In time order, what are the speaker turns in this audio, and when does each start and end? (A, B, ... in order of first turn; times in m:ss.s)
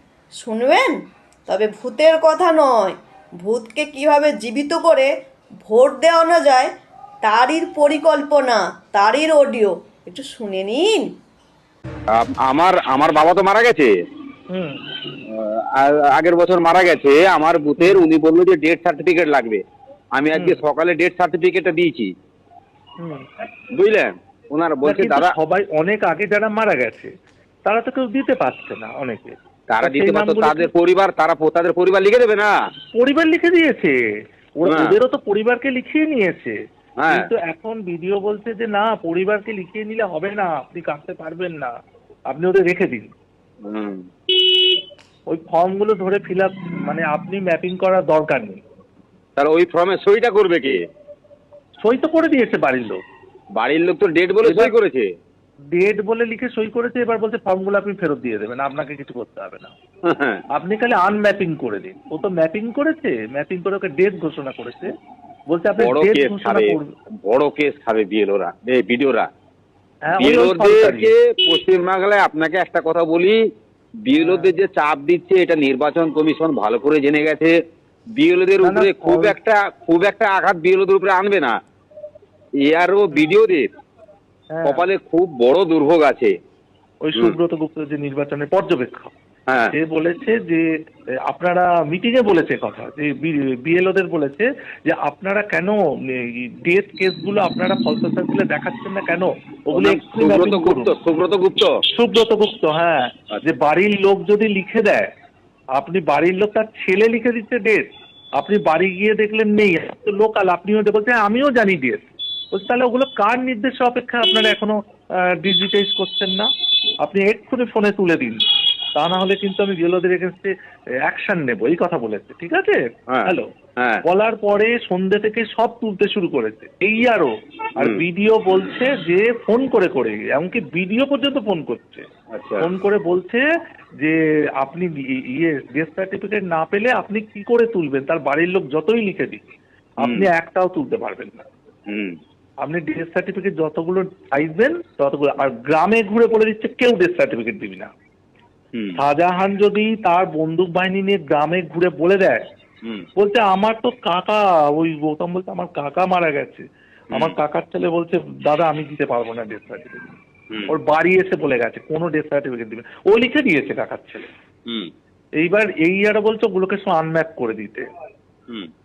0:00.4-0:05.1 A
0:05.6-0:06.7 A
0:07.2-0:11.1 A
0:12.1-0:13.9 B
0:14.5-0:14.8 C
0:15.3-0:19.6 B
0:17.8-0:18.0 C
0:20.1-0:22.1 B
0:20.3-0:20.6 C
0:23.0-0:23.3 C
0:23.8-0:25.3 B
0:24.8-0:27.1 C
0:27.6-0:30.7 C
0:29.7-0:32.5 B
0:32.9-0:36.6 C
0:34.6-0:34.9 B
0:37.0-0:37.3 B
0:37.1-0:41.7 C
0:42.3-0:43.1 C
0:43.7-0:44.0 B
0:45.3-0:48.6 C
0:49.4-0:50.8 B
0:51.8-0:53.0 C
0:53.6-0:55.1 B
0:54.4-0:54.7 C
0:55.7-0:59.7 C
1:00.1-1:00.4 B
1:00.5-1:04.9 C
1:05.5-1:06.9 C
1:05.8-1:09.3 B
1:10.0-1:11.1 C
1:10.2-1:13.4 B
1:14.0-1:17.5 B
1:14.1-1:14.5 C
1:18.2-1:21.5 B
1:18.6-1:19.4 C
1:22.6-1:23.6 B
1:24.5-1:24.9 C
1:24.6-1:26.3 B
1:27.0-1:29.1 C
1:29.5-1:29.7 B
1:29.7-1:30.7 C
1:31.3-1:40.9 C
1:39.7-1:41.7 B
1:41.9-1:45.1 C
1:45.7-1:56.5 C
1:57.0-1:58.4 C
1:59.0-2:00.5 C
2:01.1-2:03.5 C
2:03.1-2:04.0 B
2:04.0-2:12.1 C
2:12.3-2:12.7 B
2:12.6-2:13.4 C
2:14.0-2:21.5 C
2:20.0-2:20.3 B
2:21.9-2:22.1 B
2:22.6-2:27.9 C
2:28.7-2:29.0 B
2:29.0-2:32.4 C
2:33.2-2:40.1 C
2:40.7-2:44.3 C
2:45.4-2:47.8 C